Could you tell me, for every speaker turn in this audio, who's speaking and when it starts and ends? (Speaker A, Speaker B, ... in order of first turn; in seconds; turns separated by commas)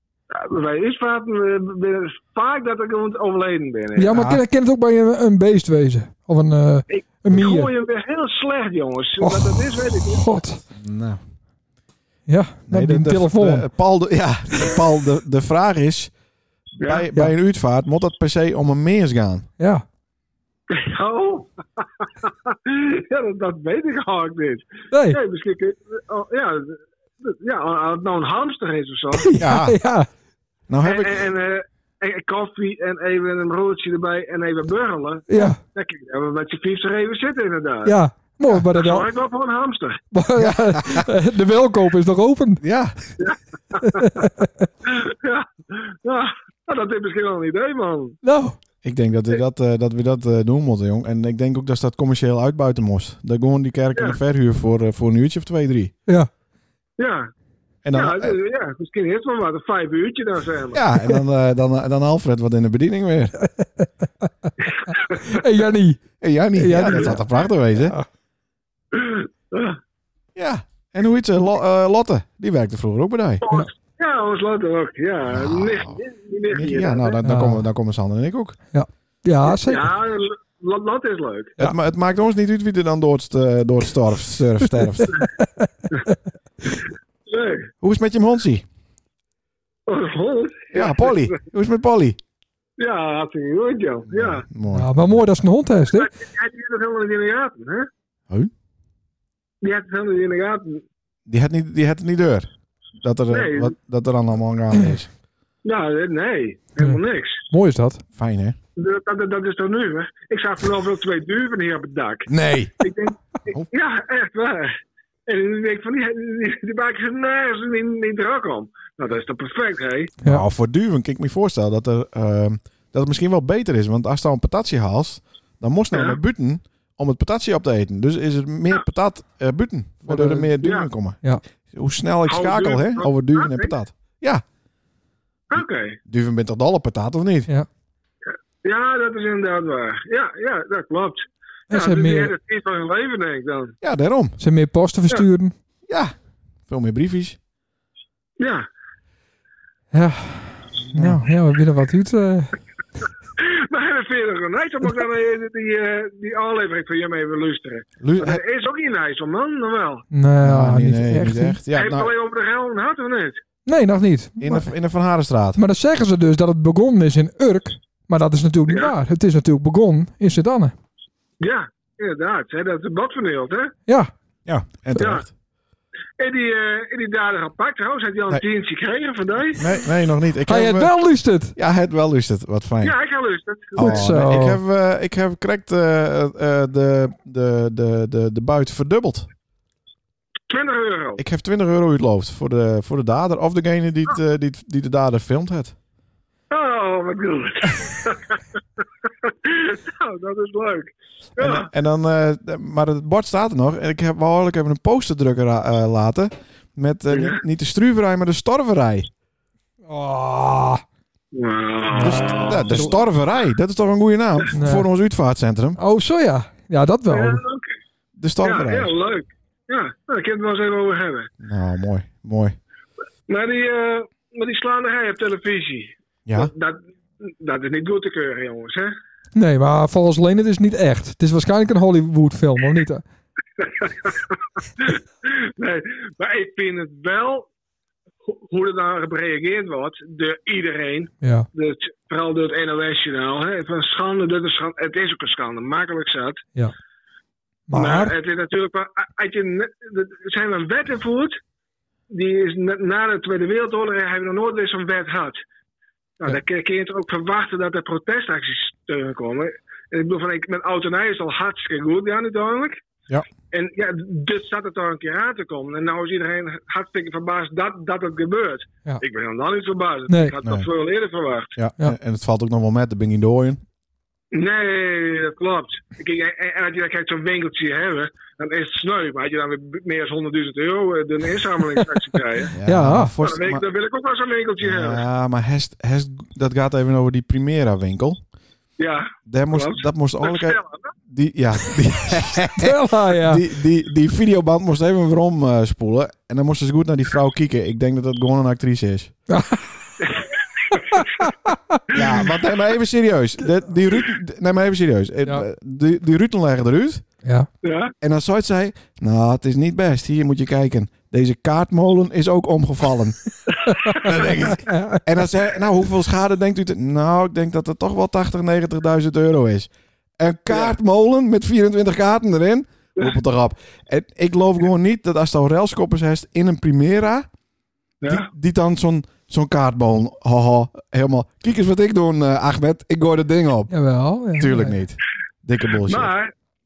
Speaker A: 0.3-4.1, Speaker B: 4.0-7.7, Speaker C: 4.1-4.4, Speaker A: 6.9-10.3, Speaker B: 9.2-10.6, Speaker C: 10.7-11.2, Speaker B: 12.3-13.7, Speaker C: 12.7-16.1, Speaker C: 16.8-19.5, Speaker A: 16.8-17.1, Speaker B: 19.6-19.8, Speaker A: 20.7-29.3, Speaker B: 24.9-25.2, Speaker B: 29.1-30.1, Speaker C: 29.4-29.8, Speaker C: 30.7-31.3, Speaker A: 30.8-37.9, Speaker B: 35.3-35.6, Speaker B: 37.8-39.1, Speaker A: 38.6-40.0, Speaker B: 40.1-42.6, Speaker C: 40.4-41.1, Speaker C: 42.6-43.0, Speaker A: 43.2-44.1, Speaker B: 43.8-44.7, Speaker A: 44.8-48.2, Speaker B: 48.2-48.6, Speaker C: 48.8-55.9, Speaker A: 57.0-57.3, Speaker C: 57.8-58.4, Speaker A: 57.9-60.8, Speaker C: 60.7-63.3, Speaker B: 63.6-63.9, Speaker A: 64.8-65.4, Speaker B: 65.1-67.2, Speaker C: 66.2-68.0, Speaker A: 68.9-69.8, Speaker C: 70.3-73.4, Speaker A: 73.4-77.2, Speaker C: 75.3-78.6, Speaker B: 77.2-77.7, Speaker B: 78.7-79.9, Speaker A: 79.5-81.6, Speaker C: 81.6-85.2, Speaker B: 85.2-86.1, Speaker A: 87.3-87.7, Speaker C: 87.8-88.7, Speaker A: 89.9-91.3, Speaker C: 90.7-92.2, Speaker A: 92.8-94.4, Speaker C: 94.1-95.2, Speaker B: 94.7-96.1, Speaker A: 95.9-97.9, Speaker A: 99.6-100.8, Speaker C: 101.3-102.5, Speaker C: 103.0-105.1, Speaker A: 103.3-103.7, Speaker A: 105.6-107.4, Speaker B: 106.8-108.0, Speaker C: 108.2-108.6, Speaker A: 108.8-120.1, Speaker C: 112.3-112.9, Speaker C: 120.2-134.4, Speaker A: 125.9-126.2, Speaker B: 130.1-130.5, Speaker A: 130.6-130.9, Speaker A: 132.3-133.7, Speaker A: 135.5-136.0, Speaker C: 135.5-137.5, Speaker A: 138.3-143.8, Speaker B: 141.7-142.3, Speaker C: 143.8-144.4, Speaker B: 144.4-145.5, Speaker C: 145.9-146.1, Speaker C: 146.7-147.4, Speaker A: 148.4-148.7, Speaker B: 149.9-152.5, Speaker C: 150.9-151.2, Speaker A: 153.4-160.0, Speaker C: 158.0-158.4, Speaker B: 160.1-161.6, Speaker C: 160.4-162.1, Speaker A: 161.7-163.4, Speaker B: 163.7-164.7, Speaker C: 164.4-165.6, Speaker B: 165.6-170.7, Speaker A: 171.4-173.7, Speaker C: 174.4-175.3, Speaker A: 175.0-175.2, Speaker A: 176.2-179.7, Speaker C: 179.6-180.9, Speaker B: 180.5-181.5, Speaker C: 181.5-182.9, Speaker A: 182.8-184.2, Speaker B: 183.8-184.6, Speaker C: 183.8-189.3, Speaker A: 190.5-191.2, Speaker C: 191.2-195.7, Speaker A: 196.5-198.4, Speaker A: 199.1-201.7, Speaker C: 201.4-209.1, Speaker A: 207.1-207.4, Speaker B: 209.9-210.8, Speaker A: 211.3-212.9, Speaker C: 211.9-215.8, Speaker B: 214.5-214.9, Speaker B: 215.8-217.4, Speaker A: 217.1-217.7, Speaker C: 218.2-218.9, Speaker A: 218.4-221.3, Speaker C: 221.4-222.6, Speaker A: 223.3-228.9, Speaker C: 226.2-226.5, Speaker B: 229.3-233.0, Speaker A: 233.6-237.5, Speaker A: 238.2-246.4, Speaker B: 241.2-241.5, Speaker B: 247.7-248.1, Speaker A: 247.7-251.4, Speaker A: 252.1-255.4, Speaker A: 256.2-262.8, Speaker A: 263.5-271.5, Speaker B: 270.1-270.3, Speaker C: 270.4-270.7, Speaker C: 271.6-273.6, Speaker A: 274.3-282.6, Speaker C: 282.5-283.6, Speaker B: 282.6-283.1, Speaker A: 283.2-285.0, Speaker C: 284.6-288.2, Speaker A: 288.8-290.9, Speaker C: 289.3-299.1, Speaker B: 292.6-293.4, Speaker B: 299.3-299.9, Speaker A: 300.0-301.1, Speaker B: 300.9-301.8, Speaker C: 301.9-307.0, Speaker A: 301.9-302.2, Speaker A: 307.6-307.9, Speaker C: 308.0-313.2, Speaker A: 313.7-314.1, Speaker C: 313.9-327.3, Speaker B: 314.5-315.0, Speaker A: 320.5-320.7, Speaker A: 328.0-328.3, Speaker C: 328.0-333.7, Speaker B: 333.7-334.8, Speaker C: 334.4-336.1, Speaker A: 335.8-336.3